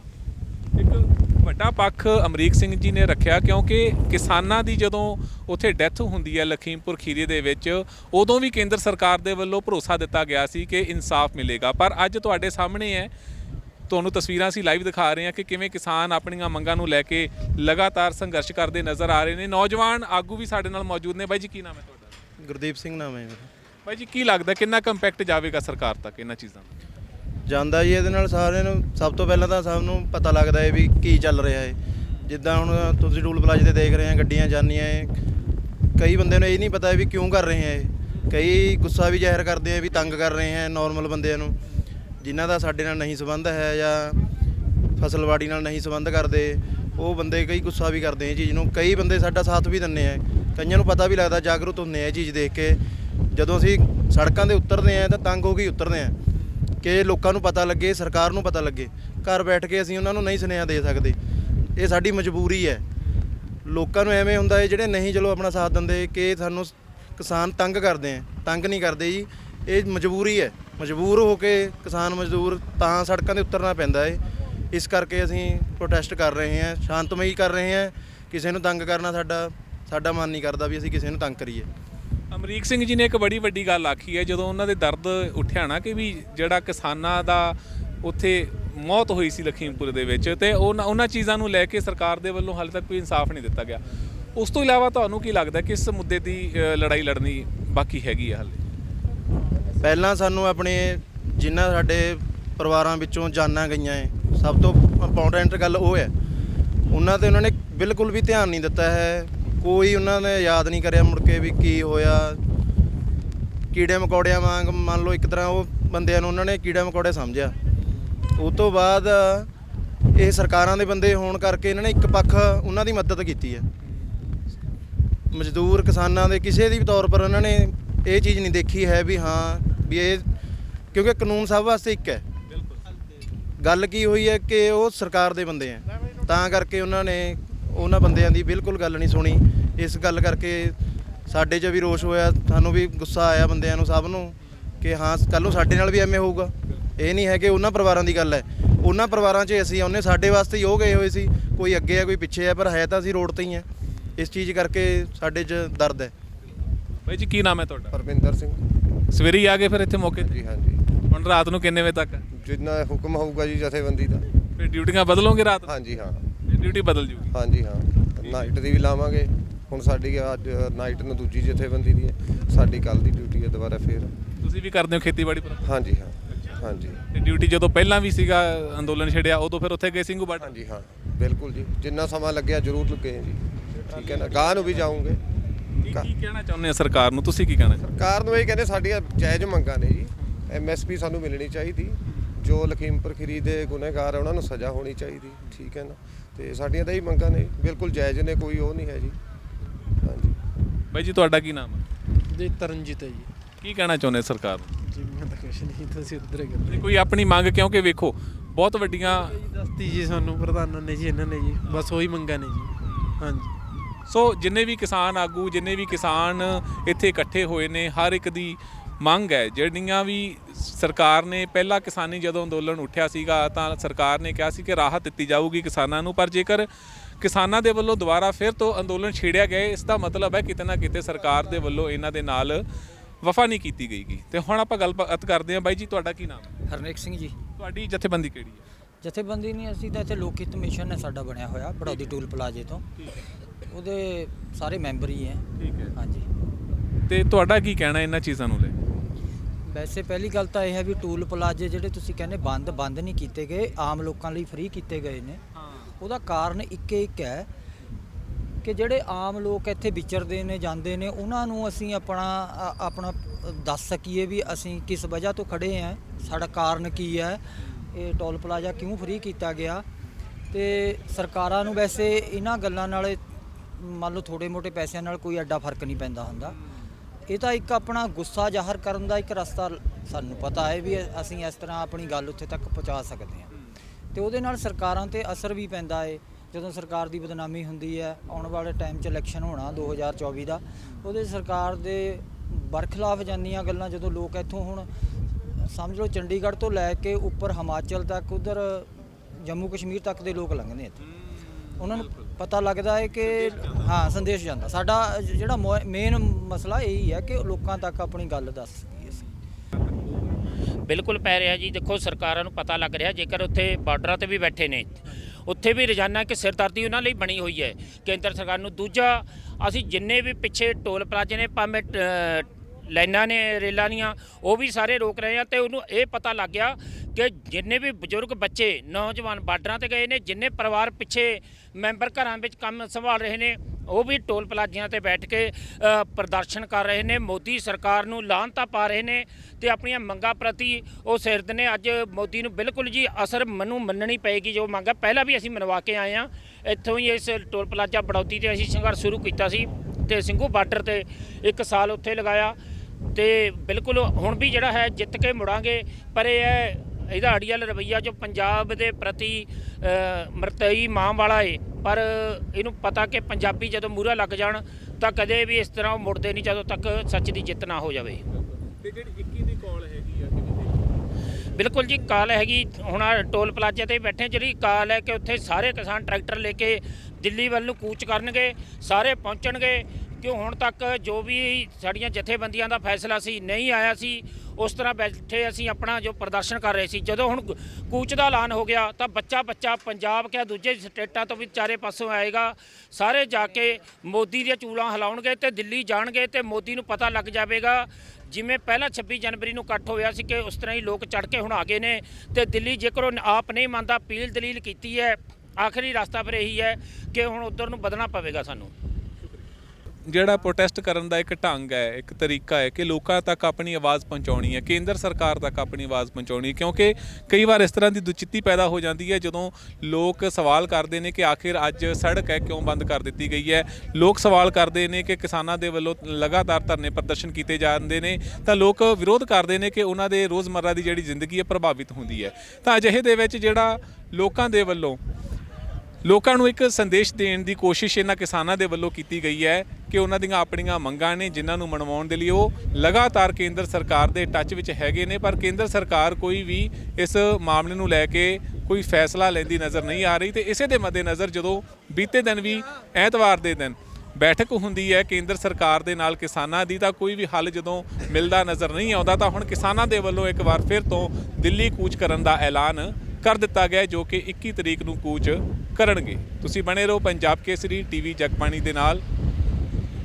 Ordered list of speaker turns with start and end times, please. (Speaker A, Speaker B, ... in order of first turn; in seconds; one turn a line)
Speaker A: 0.8-13.1
Speaker A: 13.9-22.1
Speaker B: 22.4-23.5
Speaker A: 23.8-26.7
Speaker B: 27.4-35.1
Speaker A: 31.9-32.3
Speaker B: 36.0-41.5
Speaker B: 42.2-44.2
Speaker B: 45.0-56.1
Speaker B: 56.8-61.2
Speaker B: 61.8-62.8
Speaker B: 63.6-81.7
Speaker A: 82.3-93.8
Speaker A: 94.3-98.6
Speaker B: 99.8-106.1
Speaker B: 106.9-112.4
Speaker B: 113.7-117.5
Speaker B: 118.3-119.5
Speaker B: 120.1-123.6
Speaker B: 125.3-130.3
Speaker B: 130.9-132.2
Speaker B: 133.6-140.8
Speaker B: 141.3-156.1
Speaker A: 153.9-154.1
Speaker A: 157.0-157.9
Speaker C: 157.9-158.6
Speaker A: 159.1-160.3
Speaker C: 160.2-160.8
Speaker A: 161.1-162.2
Speaker C: 162.3-164.3
Speaker A: 164.6-165.7
Speaker C: 165.6-166.2
Speaker A: 166.4-167.3
Speaker C: 167.3-174.1
Speaker A: 168.2-168.5
Speaker A: 174.4-175.7
Speaker C: 175.6-177.0
Speaker A: 177.1-180.6
Speaker C: 180.4-185.2
Speaker A: 183.9-184.8
Speaker A: 185.8-187.8
Speaker C: 187.8-199.2
Speaker C: 200.0-200.3
Speaker A: 200.9-201.8
Speaker D: 202.3-203.3
Speaker A: 203.6-204.7
Speaker D: 204.8-206.9
Speaker A: 206.7-209.4
Speaker D: 209.0-213.5
Speaker A: 212.8-213.2
Speaker A: 214.1-226.7
Speaker A: 227.2-232.6
Speaker A: 233.2-236.5
Speaker E: 236.7-237.3
Speaker A: 237.6-238.6
Speaker E: 239.0-242.8
Speaker E: 243.7-245.4
Speaker A: 245.6-245.9
Speaker E: 245.9-246.3
Speaker A: 247.1-248.8
Speaker E: 249.7-255.4
Speaker A: 255.6-255.9
Speaker E: 256.0-257.5
Speaker E: 258.6-269.8
Speaker E: 270.5-273.2
Speaker E: 273.8-276.6
Speaker E: 277.3-283.5
Speaker E: 284.1-294.9
Speaker E: 295.6-301.0
Speaker A: 301.1-302.3
Speaker E: 301.8-309.2
Speaker A: 303.3-303.9
Speaker A: 309.8-310.3
Speaker F: 310.9-352.6
Speaker F: 353.1-368.2
Speaker A: 368.3-370.8
Speaker F: 371.6-408.7
Speaker A: 410.1-435.0
Speaker A: 436.0-469.0